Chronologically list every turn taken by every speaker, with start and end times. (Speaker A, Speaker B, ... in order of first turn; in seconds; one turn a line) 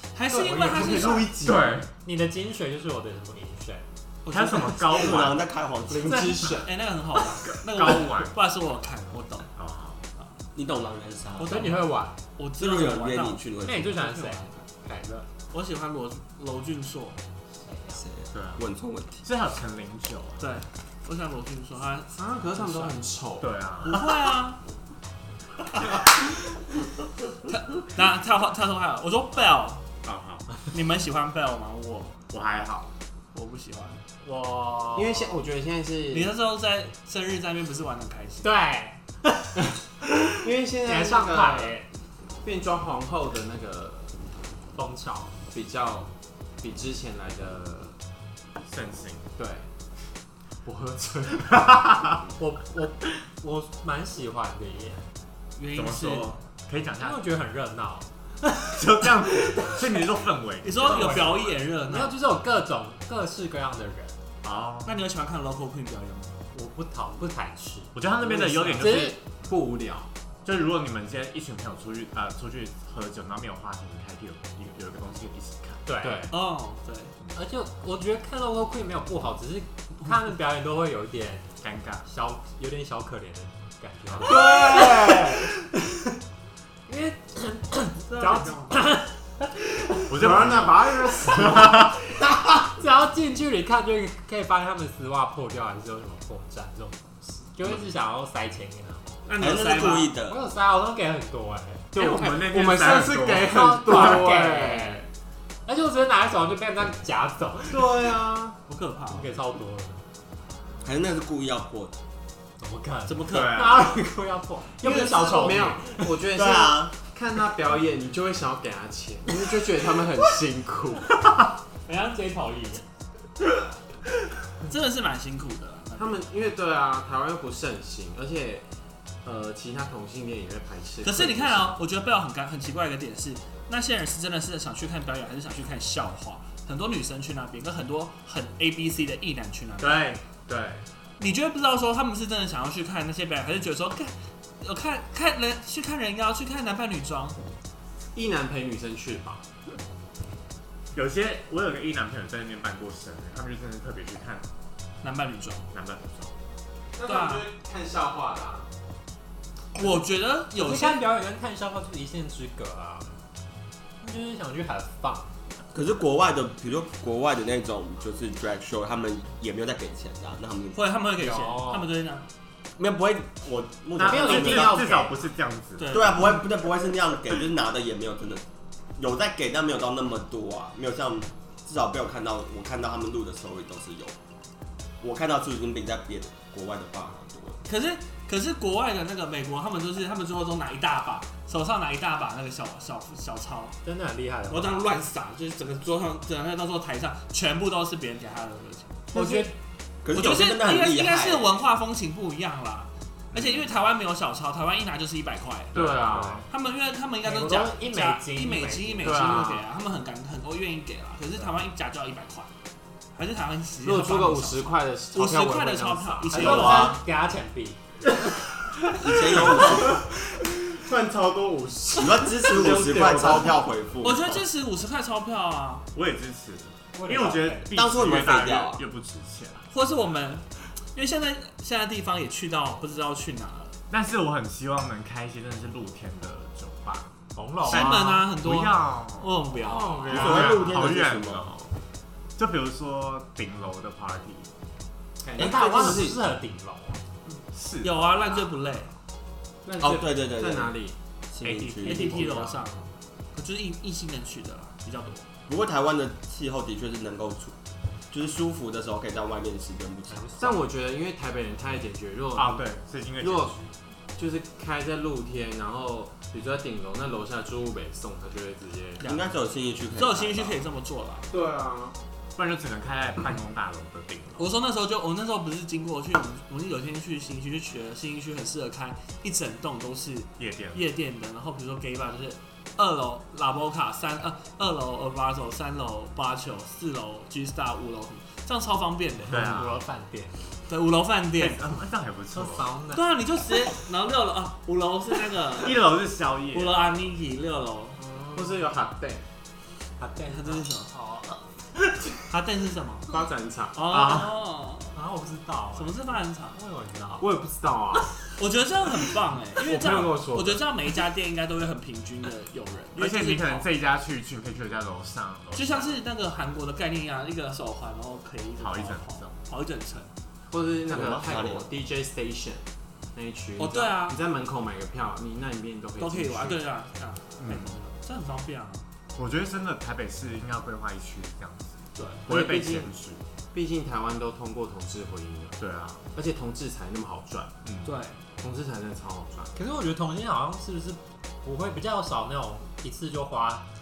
Speaker A: 0.1-1.3
Speaker B: 0.3-1.8
Speaker C: 1.4-1.9
Speaker D: 2.0-3.9
Speaker A: 4.2-5.1
Speaker C: 4.3-5.5
Speaker E: 4.9-6.4
Speaker B: 5.9-6.7
Speaker A: 6.6-9.5
Speaker C: 7.6-8.3
Speaker C: 9.6-10.0
Speaker E: 10.5-11.6
Speaker A: 11.4-14.6
Speaker D: 11.4-12.1
Speaker E: 12.6-14.0
Speaker D: 13.6-15.2
Speaker A: 15.5-17.2
Speaker D: 17.6-18.0
Speaker E: 17.9-19.2
Speaker C: 18.3-18.6
Speaker C: 19.2-20.5
Speaker A: 20.4-23.0
Speaker B: 22.1-23.5
Speaker C: 23.4-24.1
Speaker A: 23.8-24.6
Speaker A: 27.5-29.8
Speaker C: 30.0-30.5
Speaker A: 30.7-32.2
Speaker C: 32.3-32.9
Speaker A: 33.3-34.0
Speaker D: 34.2-35.4
Speaker B: 34.9-36.3
Speaker A: 36.1-38.5
Speaker D: 38.4-39.7
Speaker B: 40.4-41.8
Speaker D: 40.8-41.9
Speaker B: 42.4-44.1
Speaker D: 44.8-45.3
Speaker B: 45.5-46.1
Speaker B: 46.6-47.9
Speaker C: 48.6-49.3
Speaker B: 49.4-49.6
Speaker B: 50.6-52.0
Speaker D: 52.4-55.1
Speaker A: 55.6-56.4
Speaker C: 55.7-57.2
Speaker D: 57.0-59.8
Speaker C: 58.7-61.6
Speaker A: 60.6-62.1
Speaker D: 60.9-64.2
Speaker C: 64.4-65.0
Speaker A: 64.8-66.4
Speaker D: 66.5-68.0
Speaker C: 67.9-69.5
Speaker B: 68.2-70.1
Speaker D: 68.8-69.2
Speaker C: 70.4-75.8
Speaker D: 75.8-76.2
Speaker B: 76.0-76.3
Speaker A: 76.3-77.1
Speaker D: 77.3-81.5
Speaker C: 81.6-82.0
Speaker D: 82.0-85.4
Speaker C: 84.1-84.3
Speaker B: 84.2-85.5
Speaker D: 86.9-89.5
Speaker A: 88.1-88.8
Speaker C: 90.1-91.9
Speaker B: 90.1-91.9
Speaker D: 92.5-99.1
Speaker A: 99.2-100.1
Speaker E: 99.4-100.4
Speaker D: 100.3-101.9
Speaker B: 101.9-105.0
Speaker C: 101.9-104.2
Speaker D: 103.4-105.0
Speaker D: 105.7-108.2
Speaker B: 107.7-108.6
Speaker A: 108.7-109.3
Speaker D: 109.1-110.0
Speaker E: 110.8-111.9
Speaker D: 112.6-116.0
Speaker A: 113.1-113.7
Speaker C: 113.3-113.9
Speaker B: 114.8-121.2
Speaker E: 116.3-117.0
Speaker D: 121.8-122.8
Speaker A: 124.7-126.2
Speaker B: 126.0-128.6
Speaker B: 129.2-131.8
Speaker A: 131.0-140.1
Speaker B: 139.8-140.8
Speaker A: 141.2-147.4
Speaker B: 148.1-149.4
Speaker C: 150.9-154.4
Speaker A: 155.0-155.7
Speaker C: 155.7-156.3
Speaker B: 156.9-158.7
Speaker A: 157.0-157.5
Speaker A: 159.7-161.0
Speaker D: 160.5-163.2
Speaker D: 164.0-165.3
Speaker E: 165.7-170.8
Speaker A: 170.7-172.2
Speaker D: 171.2-171.9
Speaker E: 172.8-174.8
Speaker C: 173.9-176.0
Speaker D: 174.0-175.2
Speaker A: 175.8-176.3
Speaker E: 175.9-178.4
Speaker E: 179.0-184.1
Speaker E: 185.0-187.6
Speaker A: 187.7-193.8
Speaker D: 193.8-194.9
Speaker A: 194.5-199.1
Speaker D: 199.1-199.5
Speaker E: 200.0-201.5
Speaker A: 200.1-205.8
Speaker C: 203.3-203.7
Speaker B: 205.7-206.4
Speaker C: 205.7-206.5
Speaker A: 206.5-212.5
Speaker D: 207.2-209.4
Speaker B: 209.0-209.6
Speaker A: 213.1-216.9
Speaker B: 213.8-216.9
Speaker D: 216.3-217.8
Speaker E: 216.4-216.9
Speaker E: 219.0-220.0
Speaker B: 219.1-220.0
Speaker B: 220.7-223.6
Speaker E: 221.9-224.4
Speaker A: 224.0-225.8
Speaker C: 225.9-229.7
Speaker D: 226.9-227.7
Speaker E: 227.7-228.8
Speaker A: 229.7-233.8
Speaker C: 233.9-237.1
Speaker D: 237.3-238.0
Speaker A: 237.6-240.0
Speaker C: 237.7-239.4
Speaker B: 239.6-240.6
Speaker D: 239.7-240.1
Speaker E: 240.1-241.5
Speaker C: 240.1-241.7
Speaker C: 242.3-244.5
Speaker B: 245.2-246.2
Speaker E: 245.4-246.2
Speaker D: 245.4-247.0
Speaker A: 247.3-248.9
Speaker C: 247.5-248.2
Speaker B: 249.6-250.9
Speaker E: 249.8-250.7
Speaker E: 251.3-252.3
Speaker A: 251.4-255.2
Speaker B: 251.8-252.6
Speaker E: 255.5-257.5
Speaker E: 258.1-260.4
Speaker D: 260.1-260.6
Speaker B: 260.4-262.6
Speaker C: 262.3-263.7
Speaker B: 263.2-263.5
Speaker B: 264.1-269.0
Speaker E: 269.0-270.6
Speaker A: 269.0-269.3
Speaker A: 269.9-271.3
Speaker B: 271.3-271.9
Speaker C: 272.4-274.5
Speaker A: 274.4-289.4
Speaker C: 280.4-280.8
Speaker D: 289.3-290.6
Speaker C: 289.3-289.8
Speaker A: 290.7-291.7
Speaker C: 291.4-292.7
Speaker D: 292.3-293.1
Speaker A: 292.9-295.8
Speaker C: 295.6-297.0
Speaker A: 296.5-298.0
Speaker D: 298.0-298.6
Speaker B: 298.3-299.2
Speaker D: 300.0-301.4
Speaker A: 300.3-300.9
Speaker A: 302.3-303.1
Speaker B: 303.1-303.8
Speaker A: 303.7-304.9
Speaker C: 303.9-304.3
Speaker D: 304.9-307.3
Speaker A: 305.7-306.6
Speaker B: 307.2-308.2
Speaker A: 308.4-313.7
Speaker B: 309.6-310.7
Speaker C: 312.9-316.0
Speaker A: 315.5-320.1
Speaker C: 318.6-319.3
Speaker B: 320.5-326.6
Speaker E: 320.9-321.7
Speaker A: 323.6-324.2
Speaker A: 326.0-328.8
Speaker C: 327.4-327.8
Speaker C: 329.1-333.2
Speaker A: 331.9-332.2
Speaker B: 332.3-332.9
Speaker B: 333.5-335.6
Speaker C: 335.6-336.0
Speaker B: 336.1-337.5
Speaker C: 337.6-337.9
Speaker A: 337.8-338.2
Speaker B: 338.4-339.5
Speaker D: 339.5-343.6